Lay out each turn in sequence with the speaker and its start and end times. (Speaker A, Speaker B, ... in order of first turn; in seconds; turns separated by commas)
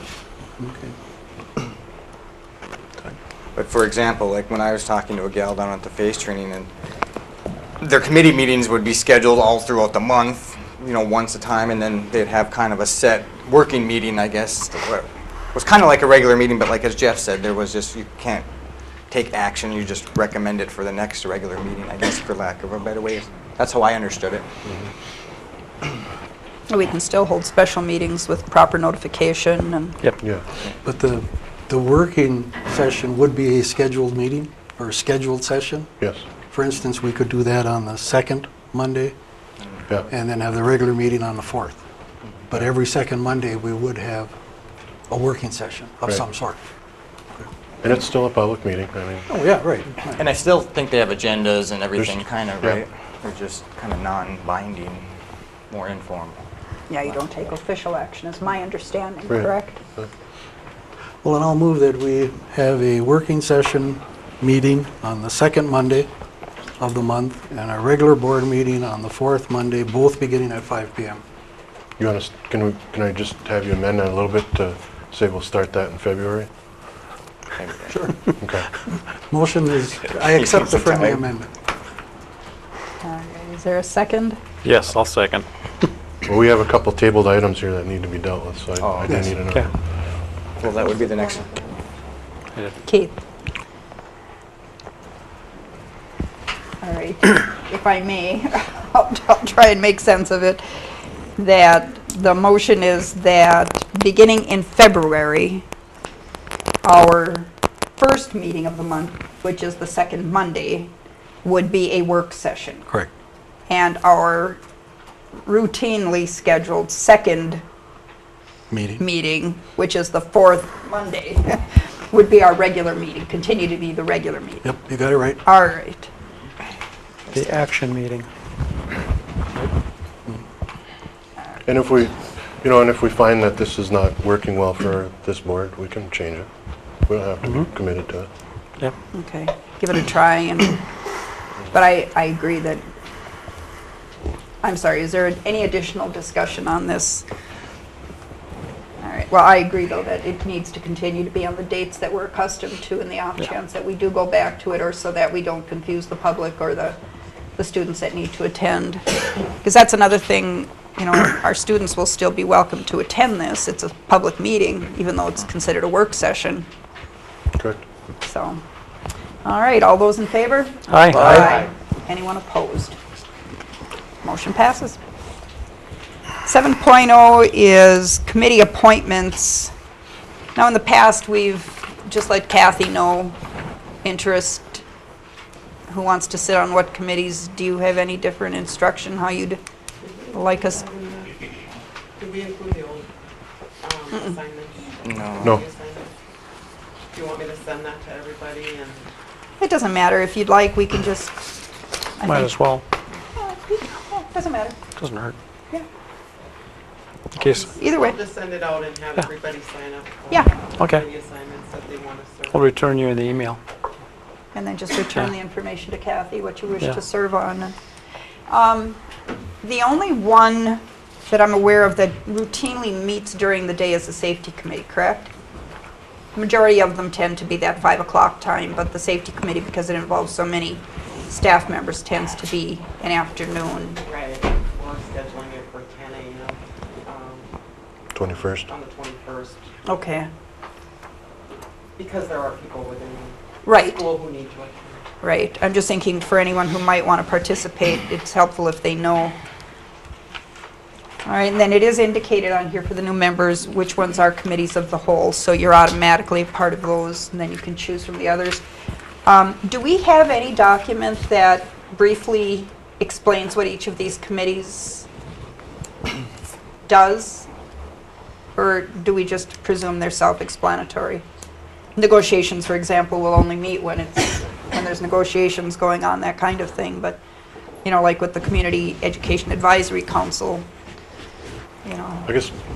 Speaker A: 0.6-0.9, Speaker B: 3.5-6.7, Speaker B: 7.8-18.5, Speaker B: 19.1-24.5, Speaker C: 24.6-24.9, Speaker D: 26.7-30.0, Speaker C: 30.2-30.4, Speaker A: 30.8-36.0, Speaker C: 36.0-36.2, Speaker A: 36.5-39.1, Speaker A: 40.1-41.8, Speaker A: 42.4-44.3, Speaker A: 45.1-46.6, Speaker C: 47.8-49.3, Speaker A: 49.3-50.2, Speaker B: 50.2-55.1, Speaker C: 52.0-52.8, Speaker B: 55.7-56.4, Speaker D: 56.9-59.8, Speaker C: 59.3-60.1, Speaker A: 61.2-66.1, Speaker A: 66.8-71.2, Speaker C: 72.0-76.5, Speaker B: 77.6-77.9, Speaker A: 77.9-78.2, Speaker C: 78.4-78.7, Speaker A: 79.2-81.5, Speaker B: 80.2-81.2, Speaker D: 83.0-84.4, Speaker E: 84.6-85.9, Speaker C: 86.2-89.7, Speaker B: 88.8-89.3, Speaker B: 90.6-91.5, Speaker F: 90.7-91.7, Speaker D: 92.8-93.2, Speaker D: 96.8-100.6, Speaker D: 101.4-105.6, Speaker D: 106.8-110.9, Speaker D: 111.4-112.8, Speaker D: 113.7-114.6, Speaker D: 115.4-117.6, Speaker A: 118.7-119.0, Speaker D: 119.0-124.7, Speaker A: 124.6-125.4, Speaker D: 125.4-126.1, Speaker E: 127.3-128.3, Speaker C: 131.7-138.3, Speaker D: 139.1-140.8, Speaker D: 141.7-142.8, Speaker D: 144.6-147.2, Speaker D: 149.0-157.0, Speaker D: 157.6-159.0, Speaker D: 159.6-166.7, Speaker C: 167.5-167.8, Speaker D: 168.2-168.6, Speaker D: 169.4-173.0, Speaker E: 170.9-171.5, Speaker B: 171.1-171.7, Speaker D: 174.2-175.0, Speaker D: 176.4-179.7, Speaker D: 180.5-183.3, Speaker D: 184.0-184.8, Speaker D: 185.9-189.6, Speaker F: 190.0-191.4, Speaker D: 190.3-190.8, Speaker F: 192.2-193.1, Speaker F: 193.8-196.1, Speaker B: 195.0-195.6, Speaker F: 197.1-199.1, Speaker D: 199.6-201.4, Speaker D: 202.2-202.5, Speaker E: 202.2-202.8, Speaker D: 203.3-204.8, Speaker E: 204.9-205.3, Speaker E: 207.3-207.7, Speaker F: 207.4-212.7, Speaker D: 207.7-208.2, Speaker D: 210.3-210.7, Speaker E: 210.8-211.0, Speaker E: 212.5-213.6, Speaker D: 214.5-217.7, Speaker D: 218.5-219.0, Speaker D: 219.6-225.3, Speaker D: 226.3-234.0, Speaker F: 234.0-237.5, Speaker C: 238.1-238.7, Speaker F: 238.5-239.7, Speaker D: 239.8-240.3, Speaker F: 242.0-245.0, Speaker D: 243.6-244.1, Speaker D: 245.2-249.4, Speaker D: 251.2-258.6, Speaker D: 259.2-265.1, Speaker D: 266.9-267.5, Speaker D: 268.6-271.2, Speaker D: 271.9-277.2, Speaker D: 277.8-280.6, Speaker D: 281.8-282.3, Speaker C: 282.2-282.6